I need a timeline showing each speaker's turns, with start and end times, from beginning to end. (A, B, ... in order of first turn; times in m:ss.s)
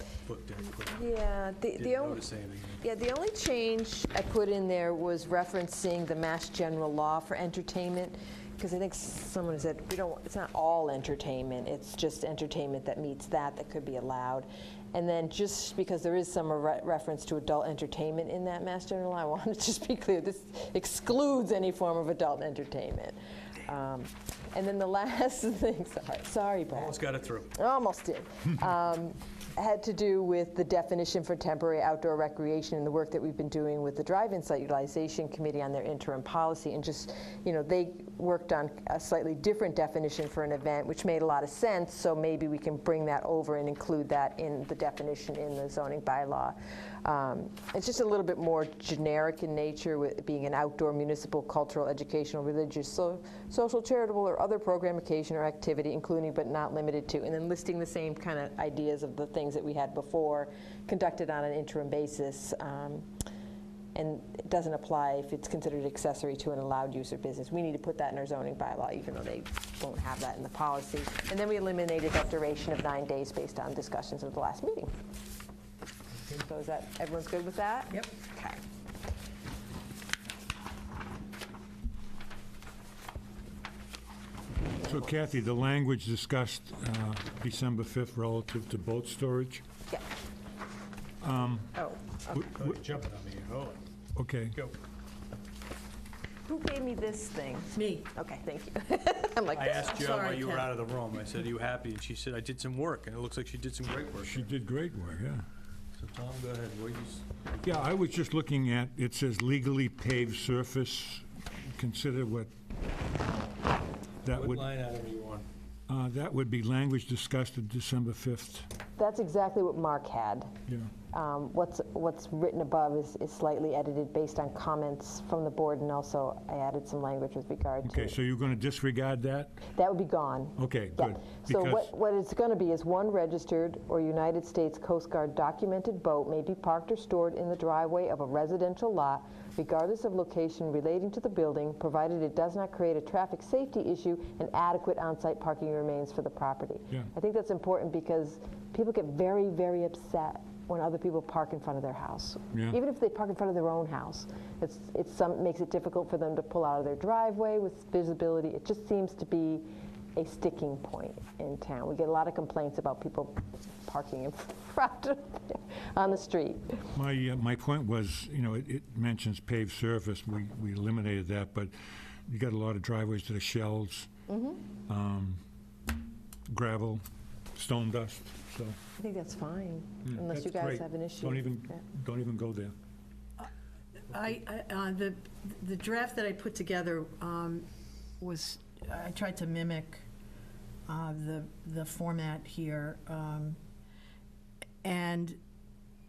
0:00.2-0:01.1 A
0:00.9-0:02.2 B
0:01.7-0:02.8 A
0:02.8-0:27.0 B
0:26.7-0:27.5 A
0:27.5-1:03.1 B
1:03.9-1:14.9 B
1:16.3-1:18.6 B
1:24.8-1:29.6 C
1:31.2-1:31.7 C
1:31.7-1:32.1 B
1:32.3-1:33.8 A
1:32.3-1:32.8 C
1:34.2-1:34.6 C
1:36.4-1:39.9 B
1:37.8-1:38.0 D
1:39.5-1:44.5 A
1:39.8-1:40.7 D
1:44.2-1:45.4 C
1:46.0-1:47.8 A
1:47.6-1:52.5 C
1:54.2-1:54.6 C
1:54.2-1:55.4 A
1:55.9-1:58.7 C
1:59.0-2:00.5 B
2:01.1-2:08.1 B
2:07.8-2:09.6 C
2:09.7-2:39.6 B
2:10.6-2:11.9 C
2:40.2-2:46.8 B
2:46.9-2:51.7 C
2:52.3-2:54.1 C
2:54.3-2:54.6 B
2:54.9-2:55.4 C
2:56.5-2:57.0 C
2:57.5-2:58.8 C
2:59.0-3:01.8 B
3:00.0-3:02.7 C
3:04.0-3:07.6 D
3:08.2-3:10.0 D
3:10.9-3:13.6 D
3:14.8-3:15.4 D